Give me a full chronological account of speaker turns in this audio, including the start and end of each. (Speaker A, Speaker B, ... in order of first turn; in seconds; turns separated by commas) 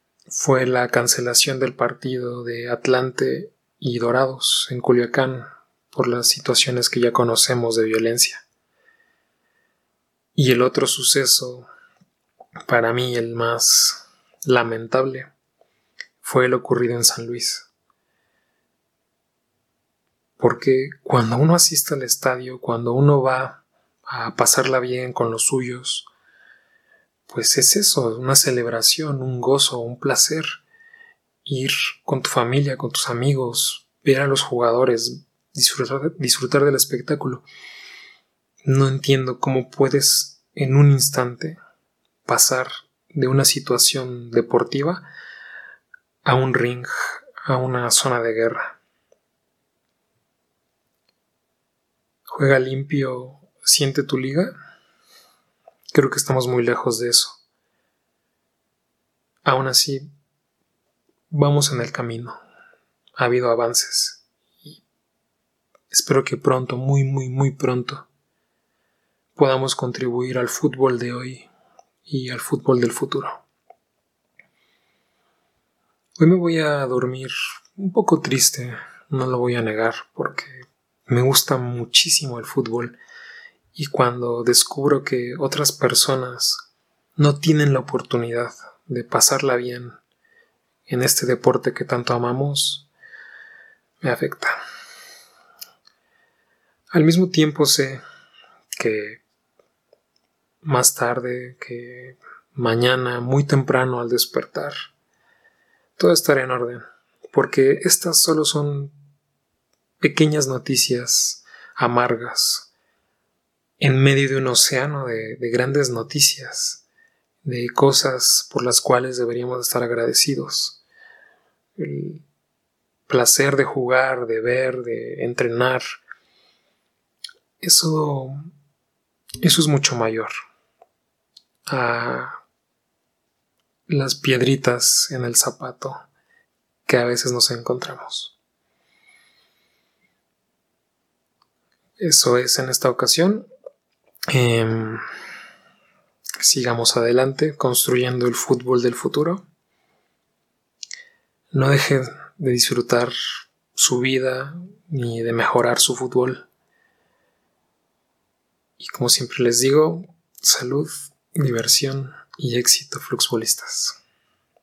Speaker A: 0.3-8.4, Speaker A: 10.3-11.7, Speaker A: 12.7-15.3, Speaker A: 16.2-17.7, Speaker A: 20.4-26.1, Speaker A: 27.3-30.6, Speaker A: 31.4-37.5, Speaker A: 38.6-41.6, Speaker A: 42.2-45.1, Speaker A: 46.2-48.8, Speaker A: 52.3-54.5, Speaker A: 55.9-57.4, Speaker A: 59.4-60.0, Speaker A: 61.3-62.4, Speaker A: 63.2-64.8, Speaker A: 65.9-68.1, Speaker A: 69.3-71.5, Speaker A: 72.1-73.4, Speaker A: 76.2-83.0, Speaker A: 83.7-86.7, Speaker A: 87.2-90.0, Speaker A: 90.9-92.9, Speaker A: 94.0-94.5, Speaker A: 96.9-98.0, Speaker A: 98.7-99.2, Speaker A: 100.6-104.7, Speaker A: 106.0-108.9, Speaker A: 110.0-112.7, Speaker A: 113.8-116.8, Speaker A: 117.4-120.8, Speaker A: 121.8-122.2, Speaker A: 123.1-125.8, Speaker A: 127.6-128.4, Speaker A: 129.4-130.3, Speaker A: 131.7-132.4, Speaker A: 133.9-136.0, Speaker A: 136.8-138.3, Speaker A: 142.0-143.5, Speaker A: 144.3-145.0, Speaker A: 146.4-149.4, Speaker A: 151.5-153.1, Speaker A: 153.7-156.5, Speaker A: 158.8-164.0